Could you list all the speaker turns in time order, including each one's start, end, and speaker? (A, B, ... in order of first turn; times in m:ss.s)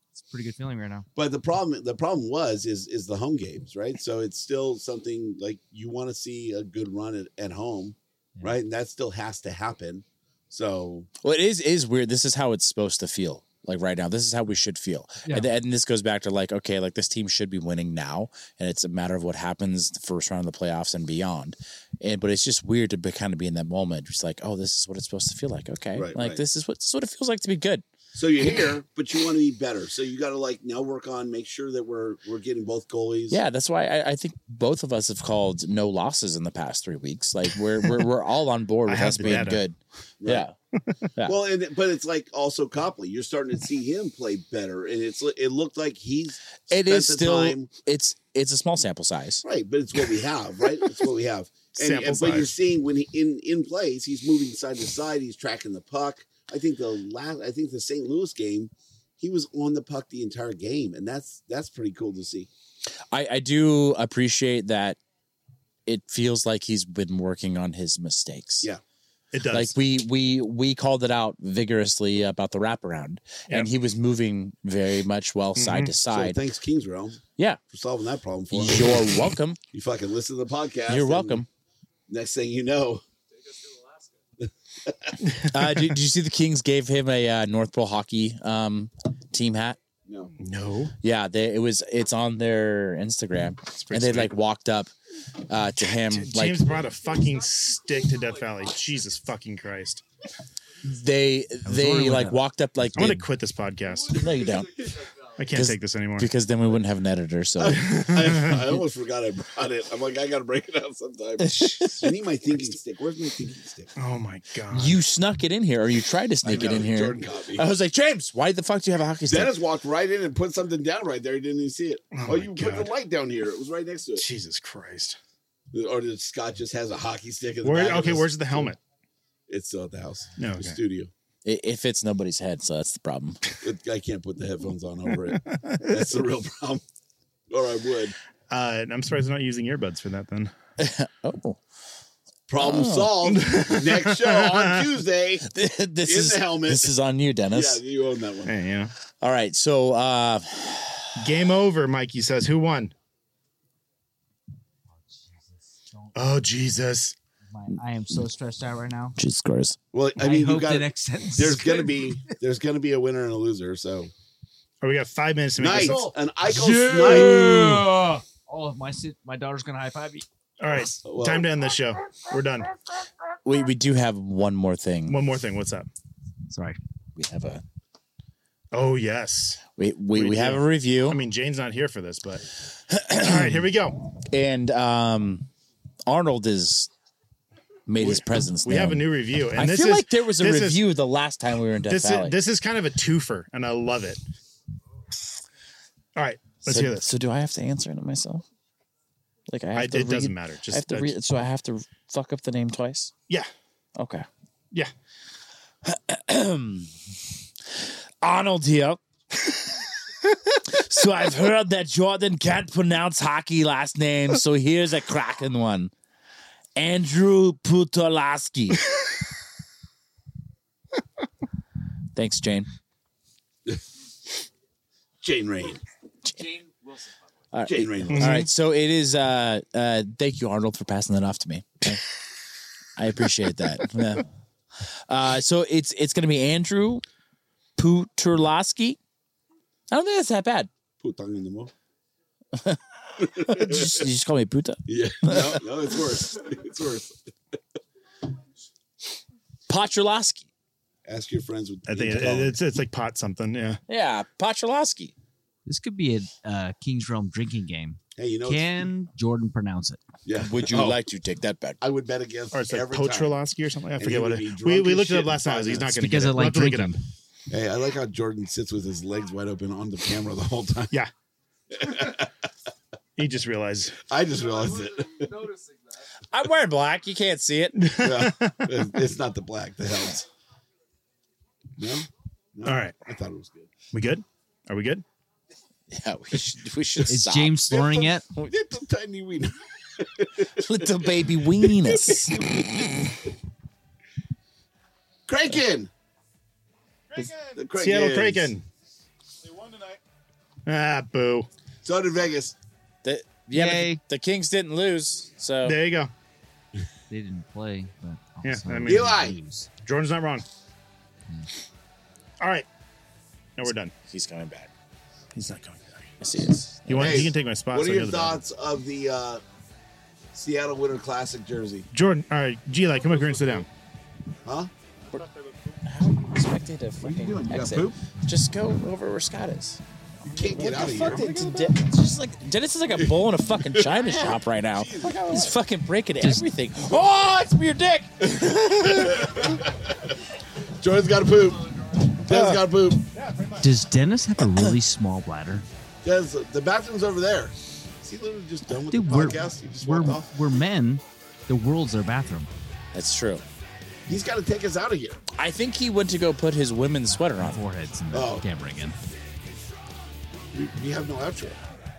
0:00.2-0:01.1 A
0:01.2-0:11.1 B
0:11.2-0:27.8 C
0:15.2-0:15.5 A
0:26.0-0:26.4 B
0:28.1-0:33.4 B
0:33.3-0:40.6 C
0:38.9-0:39.6 D
0:40.2-0:40.5 B
0:41.2-0:47.7 B
0:46.7-0:49.4 C
0:49.4-1:02.5 B
0:51.7-0:52.5 D
1:03.1-1:05.0 C
1:05.9-1:08.7 C
1:09.3-1:09.8 D
1:09.5-1:16.4 C
1:15.6-1:16.0 D
1:16.1-1:19.1 B
1:18.5-1:19.6 C
1:19.7-1:21.4 B
1:20.9-1:21.5 C
1:22.1-1:23.0 B
1:23.3-1:24.2 E
1:24.9-1:25.2 B
1:25.2-1:25.9 D
1:25.5-1:29.8 C
1:30.1-1:30.3 B
1:30.4-1:31.0 D
1:31.0-1:34.9 C
1:33.8-1:34.3 D
1:35.5-1:36.7 C
1:35.9-1:40.0 D
1:36.7-1:39.6 E
1:40.8-1:43.2 C
1:41.6-1:43.1 A
1:43.0-1:44.3 D
1:43.8-1:45.6 E
1:44.2-1:44.7 C
1:45.4-1:46.3 D
1:45.5-1:47.9 C
1:47.6-1:53.9 B
1:47.9-1:48.7 D
1:51.4-1:52.1 C
1:54.0-1:55.0 D
1:54.7-1:59.5 C
1:56.4-1:57.7 B
1:59.3-2:04.2 B
2:02.1-2:02.9 D
2:04.2-2:05.2 D
2:05.7-2:08.7 B
2:07.6-2:08.8 D
2:09.5-2:11.1 B
2:10.4-2:10.8 D
2:11.4-2:13.4 C
2:13.6-2:16.8 B
2:15.3-2:16.2 D
2:17.5-2:18.2 B
2:18.5-2:20.5 D
2:20.8-2:21.6 C
2:22.5-2:25.4 B
2:22.6-2:23.2 C
2:23.2-2:24.9 D
2:25.5-2:27.8 C
2:26.0-2:27.0 B
2:27.5-2:28.6 B
2:28.5-2:28.9 D
2:29.2-2:31.1 C
2:31.2-2:32.9 D
2:35.1-2:36.2 A
2:36.2-2:37.2 D
2:37.5-2:39.2 A
2:39.2-2:39.8 C
2:39.9-2:44.1 B
2:40.2-2:42.4 A
2:44.8-2:46.1 D
2:45.6-2:47.5 B
2:46.5-2:47.9 C
2:47.0-2:50.3 A
2:47.5-2:47.8 D
2:50.6-2:52.8 D
2:51.0-2:51.5 B
2:53.4-2:55.2 C
2:55.1-2:55.9 D
2:56.5-2:56.8 A
2:57.2-2:57.6 C
2:58.7-2:59.6 D
2:59.8-3:01.2 C
3:00.1-3:02.5 D
3:02.9-3:03.7 C
3:03.2-3:04.0 D
3:04.2-3:05.5 C
3:06.1-3:06.9 C
3:07.9-3:12.4 C
3:08.0-3:10.8 D
3:11.9-3:14.2 D
3:16.2-3:17.1 D
3:16.6-3:18.5 C
3:19.5-3:23.1 C
3:19.7-3:21.1 D
3:24.0-3:24.3 C
3:25.8-3:26.9 C
3:27.8-3:29.0 C
3:30.6-3:35.9 C
3:36.8-3:38.9 C
3:42.2-3:42.7 C
3:45.2-3:45.8 B
3:46.3-3:47.5 E
3:47.5-3:52.0 C
3:47.7-3:48.4 B
3:48.1-3:48.5 D
3:53.0-3:54.3 C
3:54.8-3:57.0 C
3:57.8-3:59.0 C
3:59.9-4:00.7 C
4:01.0-4:01.7 B
4:02.6-4:05.6 C
4:03.2-4:04.0 B
4:04.9-4:07.2 B
4:09.7-4:10.5 C
4:11.0-4:12.6 B
4:11.9-4:13.8 D
4:13.9-4:15.1 C
4:15.7-4:20.0 A
4:18.2-4:18.6 B
4:20.2-4:21.0 B
4:20.4-4:21.8 C
4:21.8-4:23.4 B
4:22.5-4:26.9 D
4:24.0-4:25.9 B
4:25.9-4:27.0 A
4:27.5-4:30.9 B
4:31.7-4:32.4 B
4:33.2-4:34.0 D
4:34.1-4:35.4 B
4:34.3-4:36.1 E
4:36.3-4:37.8 C
4:37.8-4:38.7 D
4:38.0-4:40.2 B
4:41.8-4:43.7 B
4:42.6-4:43.0 D
4:43.9-4:45.0 D
4:45.9-4:47.8 C
4:47.1-4:48.3 A
4:47.7-4:53.2 B
4:50.6-4:52.4 C
4:55.3-4:55.9 B
4:57.1-4:57.6 E
4:57.5-4:58.5 B
4:57.8-4:58.6 D
4:59.5-5:00.0 E
5:00.7-5:01.5 D
5:01.8-5:02.6 B
5:03.0-5:05.8 C
5:03.5-5:04.0 A
5:05.6-5:06.1 D
5:07.1-5:09.7 A
5:08.4-5:09.2 D
5:08.9-5:09.4 B
5:09.8-5:10.4 D
5:12.4-5:12.7 D
5:13.6-5:13.9 D
5:14.1-5:14.7 C
5:15.4-5:16.0 D
5:16.2-5:17.3 C
5:16.9-5:18.4 D
5:17.0-5:19.4 B
5:20.3-5:21.9 B
5:21.9-5:23.7 D
5:24.4-5:24.7 B
5:25.2-5:25.6 E
5:25.8-5:29.8 C
5:27.0-5:28.0 B
5:30.3-5:31.5 B
5:30.5-5:39.5 C
5:33.8-5:35.5 B
5:36.2-5:36.5 A
5:38.8-5:40.1 B
5:40.8-5:43.1 B
5:42.3-5:42.6 C
5:43.6-5:45.6 A
5:46.0-5:50.4 B
5:48.9-5:52.5 A
5:52.9-5:53.4 C
5:54.1-5:55.2 B
5:55.4-5:57.6 C
5:57.2-5:59.0 A
5:58.1-5:58.4 B
6:00.5-6:01.6 B